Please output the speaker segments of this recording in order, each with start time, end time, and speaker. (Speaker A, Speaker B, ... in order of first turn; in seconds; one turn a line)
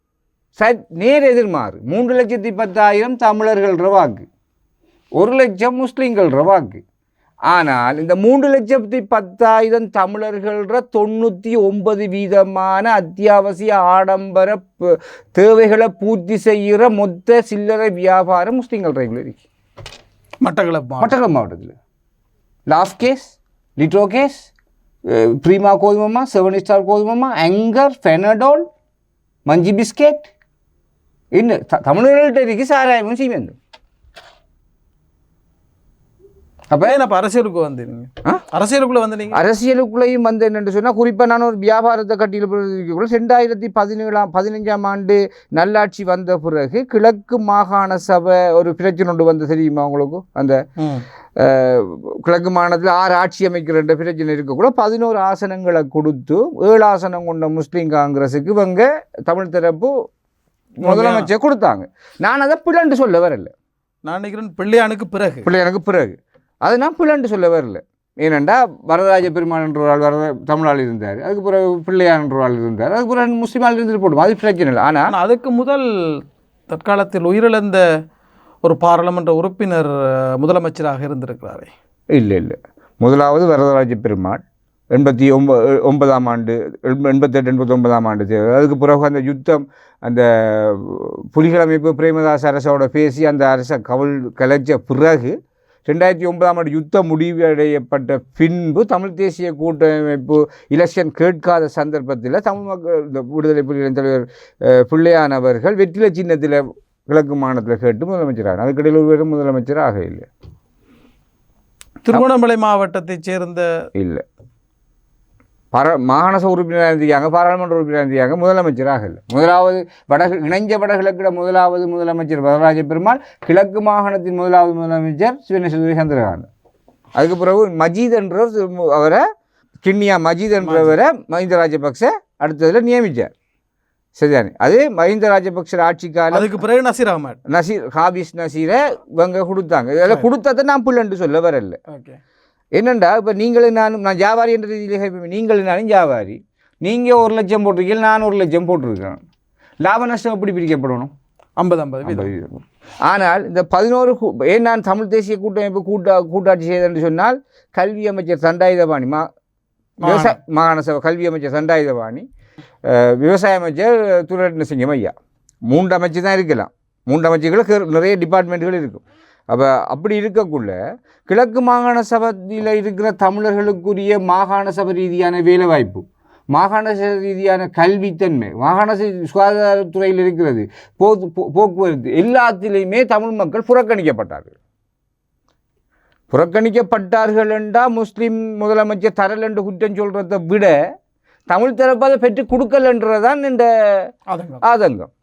Speaker A: 0.6-4.3
Speaker A: 5.2-6.8
Speaker A: 7.5-19.4
Speaker B: 20.4-21.2
Speaker A: 21.0-21.8
Speaker A: 22.7-24.5
Speaker A: 25.1-28.7
Speaker A: 29.5-30.3
Speaker A: 31.3-33.6
Speaker A: 36.7-37.0
Speaker B: 36.8-39.4
Speaker A: 39.3-50.6
Speaker B: 50.8-51.1
Speaker A: 51.4-59.9
Speaker A: 60.8-63.5
Speaker B: 60.8-61.3
Speaker B: 64.1-65.5
Speaker A: 65.4-75.1
Speaker B: 75.1-75.8
Speaker B: 76.7-77.8
Speaker B: 78.6-81.7
Speaker A: 82.1-84.4
Speaker A: 84.9-95.3
Speaker A: 95.9-110.3
Speaker B: 112.0-113.7
Speaker A: 114.0-114.2
Speaker A: 115.7-126.5
Speaker A: 127.2-129.2
Speaker A: 129.8-133.3
Speaker B: 130.6-131.0
Speaker A: 134.2-136.5
Speaker B: 136.3-137.4
Speaker A: 137.5-141.8
Speaker B: 141.9-142.2
Speaker A: 142.8-149.2
Speaker A: 149.8-151.1
Speaker B: 151.6-152.3
Speaker A: 152.1-159.2
Speaker B: 160.0-160.4
Speaker A: 160.0-162.2
Speaker A: 162.8-165.1
Speaker A: 165.7-184.5
Speaker A: 186.3-190.8
Speaker A: 191.5-194.1
Speaker B: 194.3-194.6
Speaker A: 194.6-195.1